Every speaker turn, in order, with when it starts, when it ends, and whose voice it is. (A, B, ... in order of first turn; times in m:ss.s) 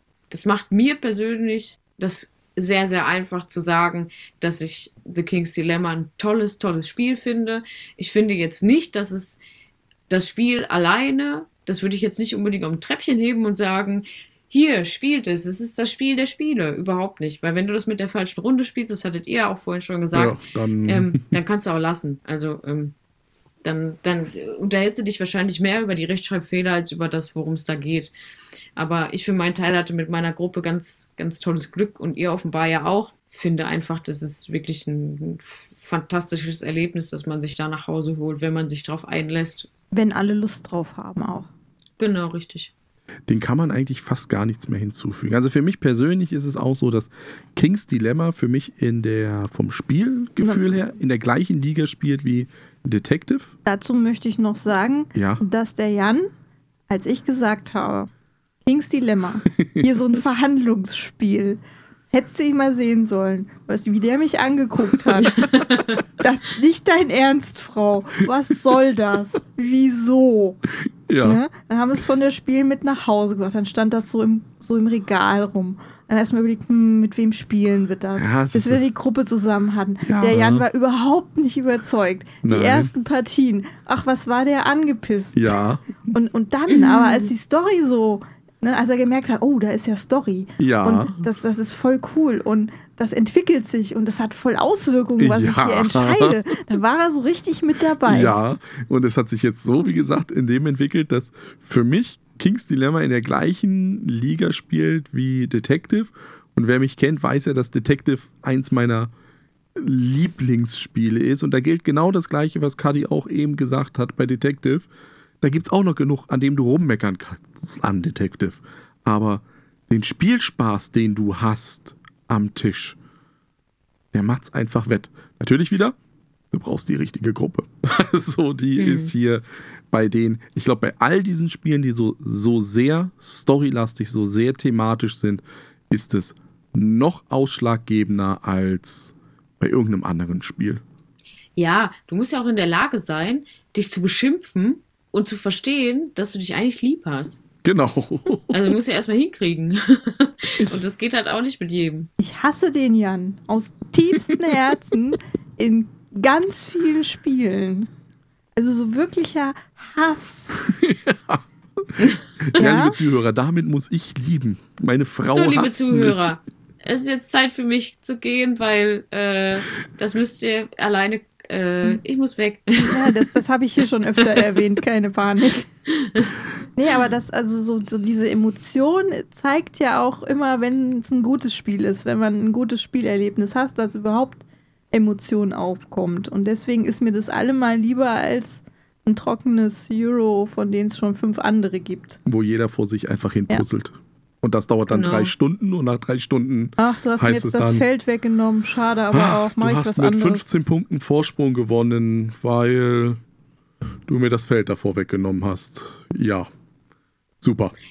0:00.3-0:09.4 A
0:10.1-0:22.9 A
0:20.2-0:21.2 B
0:23.6-0:28.1 A
0:28.8-0:39.7 A
0:39.9-0:41.5 C
0:42.0-0:42.7 A
0:43.3-0:53.5 B
0:53.7-0:56.3 C
0:55.2-0:55.4 B
0:56.9-0:58.1 C
0:58.6-1:01.6 C
1:02.1-1:05.6 C
1:05.3-1:06.0 A
1:06.1-1:10.6 C
1:11.1-1:11.4 B
1:11.2-1:38.4 C
1:18.2-1:18.8 B
1:20.0-1:20.7 B
1:22.4-1:22.9 B
1:25.3-1:25.9 B
1:26.7-1:27.3 A
1:30.6-1:31.2 B
1:35.2-1:36.4 B
1:38.0-1:49.1 B
1:49.8-1:54.9 B
1:55.4-2:03.0 B
2:04.1-2:06.0 B
2:06.5-2:20.8 B
2:08.8-2:09.1 A
2:21.6-2:27.4 A
2:27.6-2:28.7 B
2:28.5-2:32.1 A
2:32.2-2:37.9 C
2:38.6-2:40.7 C
2:40.6-2:46.3 B
2:42.6-2:43.0 C
2:45.3-2:53.2 A
2:52.8-2:55.7 C
2:56.0-2:56.3 A
2:56.8-3:12.2 C
3:12.2-3:17.8 B
3:14.9-3:15.3 A
3:16.8-3:20.5 C
3:19.1-3:23.2 B
3:24.1-3:26.5 B
3:27.4-3:27.8 B